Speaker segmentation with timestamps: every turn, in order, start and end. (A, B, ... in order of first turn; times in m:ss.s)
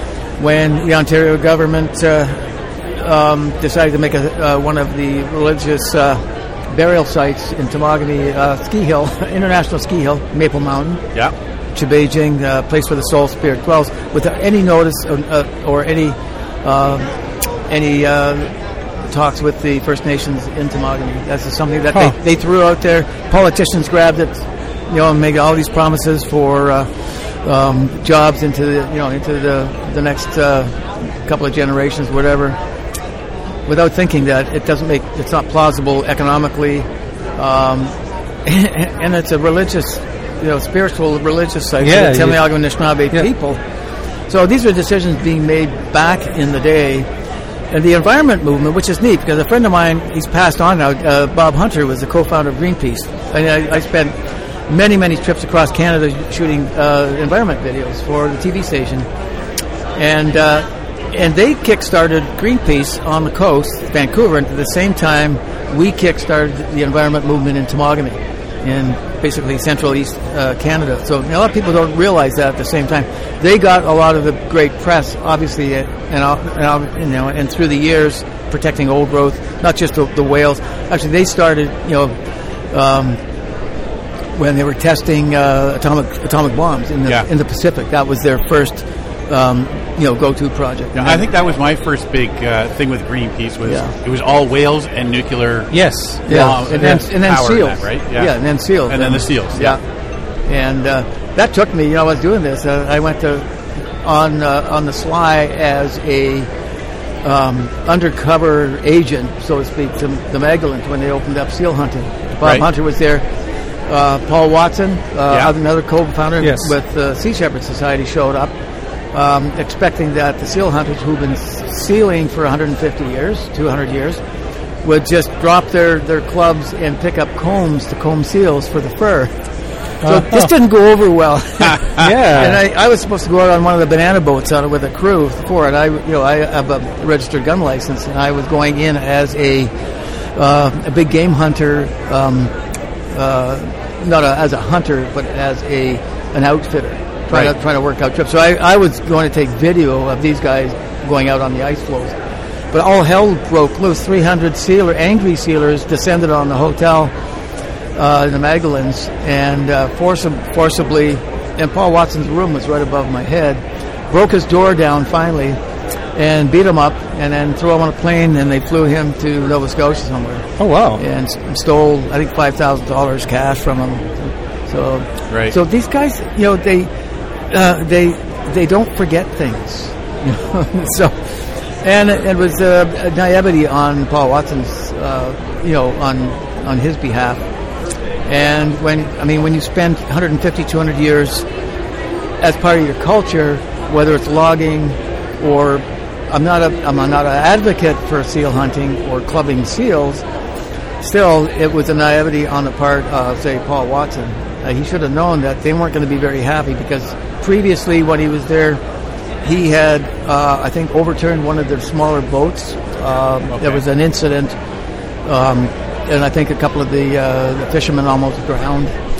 0:00.4-0:11.0 A
0:11.7-0:17.1 A
0:17.7-0:18.5 A
0:19.1-0:32.6 A
0:33.6-0:43.6 A
0:41.8-0:42.5 B
0:44.3-0:47.1 A
0:47.7-0:54.2 A
0:54.7-0:59.1 A
1:00.0-1:22.1 A
1:22.7-1:23.2 A
1:24.3-1:31.3 A
1:30.9-1:35.8 C
1:33.6-1:33.9 A
1:35.7-1:37.0 B
1:36.3-1:39.8 A
1:36.3-1:39.8 C
1:40.4-1:43.5 A
1:44.0-1:46.5 A
1:47.2-1:53.2 A
1:53.9-1:58.5 A
1:56.4-1:56.7 B
1:59.1-2:04.2 A
2:04.8-2:09.3 A
2:10.0-2:10.5 B
2:10.0-2:19.7 A
2:11.7-2:12.1 C
2:12.0-2:12.6 B
2:20.4-2:22.5 A
2:23.1-2:32.2 A
2:32.7-2:37.1 A
2:37.9-2:45.6 A
2:46.1-2:56.9 A
2:50.6-2:51.0 B
2:55.3-2:55.5 C
2:57.5-3:07.4 A
3:08.3-3:11.5 A
3:12.4-3:20.2 A
3:21.0-3:28.8 A
3:29.4-3:34.6 A
3:33.5-3:33.8 C
3:35.2-3:38.9 A